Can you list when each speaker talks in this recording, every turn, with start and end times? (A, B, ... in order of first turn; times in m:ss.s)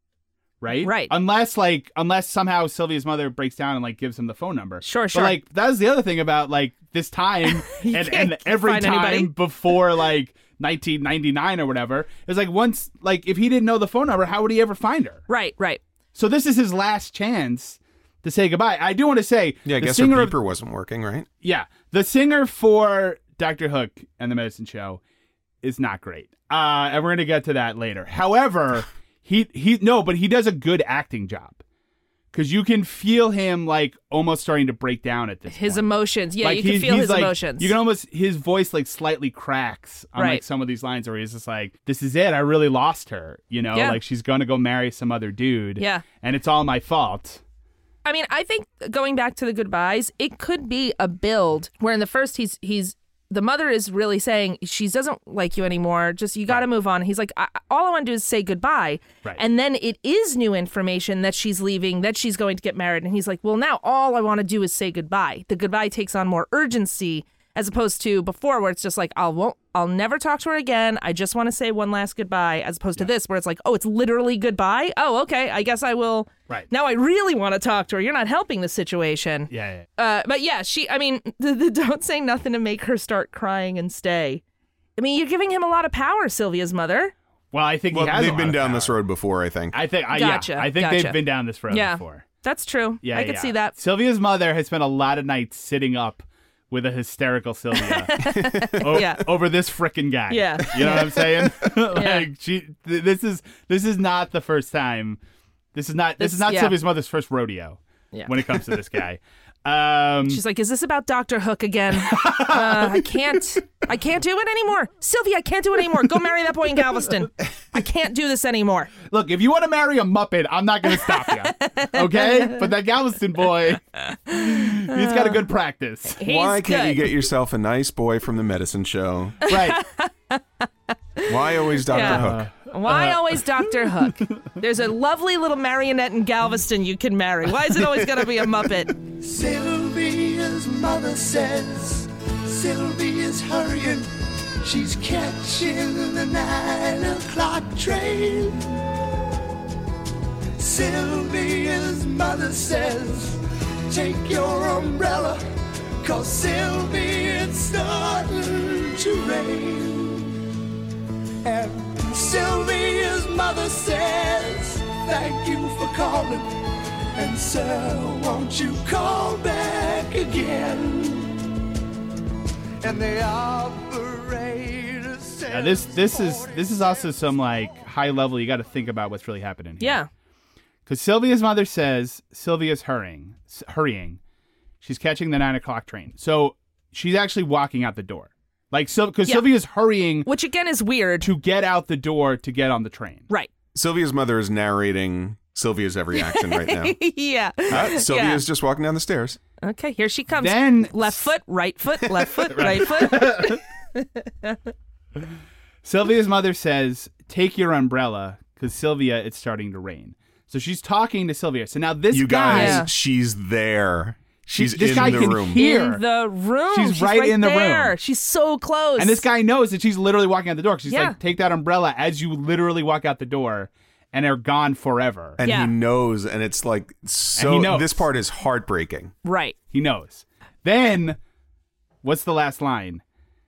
0:00.6-0:15.2 A
0:00.8-0:01.1 B
0:04.8-0:05.4 B
0:07.6-0:09.3 B
0:15.3-0:15.8 B
0:16.1-0:20.3 A
0:19.6-0:21.3 C
0:21.4-0:25.0 A
0:25.6-0:31.6 A
0:32.3-0:47.4 A
0:35.5-0:37.7 B
0:40.2-0:40.4 B
0:43.7-0:44.0 B
0:45.8-0:46.0 B
0:48.0-1:24.4 B
1:19.5-1:19.9 A
1:25.0-1:27.1 B
1:27.5-1:28.9 A
1:27.9-1:29.8 C
1:29.7-1:32.3 A
1:30.1-1:33.7 B
1:33.0-1:45.2 A
1:37.8-1:39.3 B
1:40.3-1:41.3 B
1:41.9-1:42.3 B
1:45.7-1:50.4 A
1:46.2-1:46.8 B
1:50.2-1:58.9 B
1:51.9-1:53.1 A
1:59.1-2:06.2 A
2:00.9-2:02.6 B
2:04.1-2:05.4 B
2:06.2-2:07.1 B
2:06.2-2:09.4 C
2:09.4-2:09.8 A
2:09.5-2:10.7 B
2:11.2-2:18.9 B
2:11.2-2:12.5 C
2:11.9-2:14.3 A
2:19.1-2:24.1 D
2:24.6-2:28.6 D
2:30.6-2:35.4 D
2:36.0-2:40.3 D
2:41.4-2:46.5 D
2:47.1-2:51.4 D
2:52.8-2:57.2 D
2:55.5-3:00.0 A
2:59.8-3:00.1 B
3:00.9-3:04.2 A
3:04.8-3:10.3 A
3:10.2-3:11.3 B
3:11.2-3:13.3 A
3:13.7-3:17.0 C
3:16.2-3:18.4 B
3:17.7-3:19.4 C
3:17.7-3:18.0 A
3:19.6-3:24.6 B
3:20.3-3:21.3 A
3:22.5-3:23.6 A
3:25.8-3:32.9 A
3:32.1-3:35.6 C
3:32.5-3:32.9 B
3:34.5-3:36.0 A
3:34.9-3:39.2 B
3:36.7-3:38.0 A
3:39.0-3:45.4 A
3:40.9-3:41.2 B
3:45.4-3:49.1 C
3:45.4-3:45.7 B
3:47.3-3:48.1 A
3:49.2-3:49.6 B
3:49.7-3:51.2 A
3:52.0-3:53.0 A